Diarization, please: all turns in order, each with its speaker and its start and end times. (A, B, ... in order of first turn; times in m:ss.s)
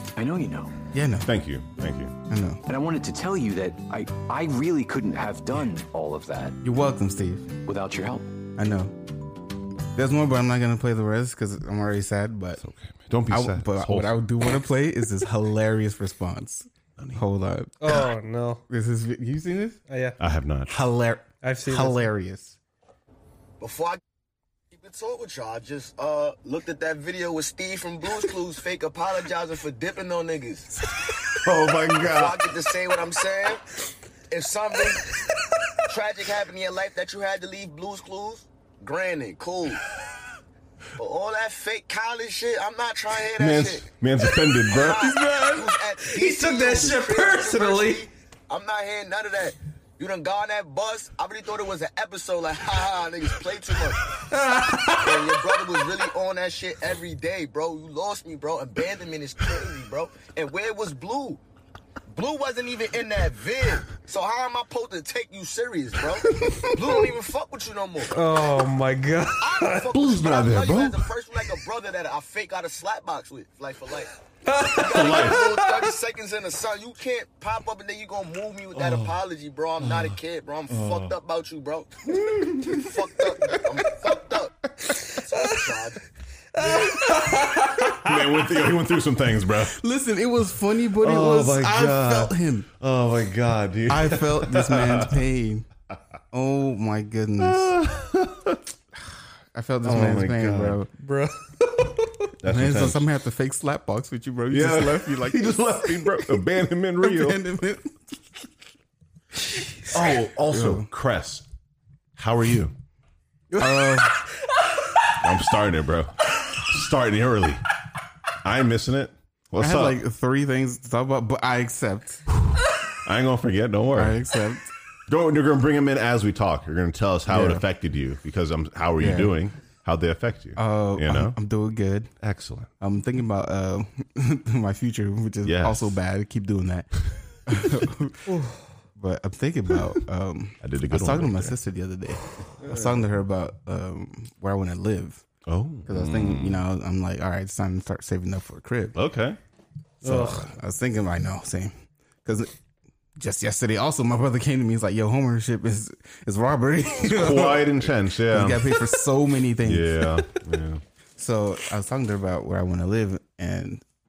0:00.2-0:00.7 A
0:00.9-0:01.3 B
0:01.2-0:02.1 C
0:02.3-0:02.6 B
0:02.7-0:06.6 A
0:06.6-0:07.5 B
0:07.6-0:08.3 A
0:08.6-0:08.9 B
0:09.9-0:12.6 B
0:12.6-0:14.1 C
0:13.3-0:18.1 B
0:17.0-0:17.2 C
0:17.8-0:18.6 D
0:18.7-0:19.8 B
0:19.9-0:20.2 D
0:20.2-0:20.8 C
0:20.7-0:22.6 B
0:21.4-0:22.0 D
0:23.6-0:24.0 E
0:24.7-0:30.7 E
0:31.3-0:32.4 C
0:32.0-0:33.6 E
0:34.3-0:35.1 E
0:35.9-0:39.8 E
0:41.0-0:43.8 E
0:43.4-0:45.1 C
0:44.7-0:54.0 E
0:45.1-0:45.6 B
0:46.0-0:48.1 D
0:54.2-0:55.6 D
0:55.0-1:01.4 E
1:02.1-1:08.2 E
1:08.1-1:10.2 D
1:09.4-1:14.1 E
1:09.9-1:11.1 C
1:14.4-1:15.9 D
1:14.6-1:22.1 E
1:14.9-1:15.5 C
1:18.7-1:19.2 C
1:19.8-1:20.2 C
1:20.7-1:21.1 C
1:22.2-1:22.6 C
1:22.4-1:22.7 B
1:22.6-1:26.0 E
1:24.9-1:25.8 D
1:26.5-1:28.5 D
1:27.9-1:29.8 C
1:29.7-1:32.7 B
1:31.0-1:35.2 C
1:33.9-1:35.7 B
1:36.3-1:37.8 B
1:37.4-1:38.6 C
1:39.5-1:40.9 B
1:39.8-1:40.8 C
1:41.0-1:42.2 D
1:42.4-1:43.1 C
1:42.4-1:46.5 B
1:44.5-1:47.4 C
1:47.0-1:48.0 B
1:49.5-1:49.9 D
1:49.9-1:51.4 C
1:50.5-1:50.9 B
1:52.2-1:52.7 C
1:53.5-1:54.2 B
1:55.2-1:57.6 C
1:58.4-2:00.0 C
1:59.5-2:02.2 B
2:02.3-2:04.2 C
2:03.9-2:04.7 B
2:05.1-2:11.4 C
2:07.3-2:07.6 B
2:09.0-2:09.3 B
2:10.6-2:12.1 B
2:12.2-2:12.7 C
2:12.8-2:16.9 B
2:15.4-2:16.0 C
2:17.4-2:18.3 B
2:18.3-2:18.6 D
2:19.0-2:25.2 B
2:20.6-2:21.6 C
2:22.6-2:23.0 C
2:25.4-2:26.6 C
2:25.8-2:29.0 B
2:28.9-2:29.4 C
2:30.0-2:30.4 D
2:30.0-2:32.5 B
2:33.2-2:40.3 B
2:37.0-2:38.7 C
2:39.6-2:40.8 C
2:41.2-2:43.8 B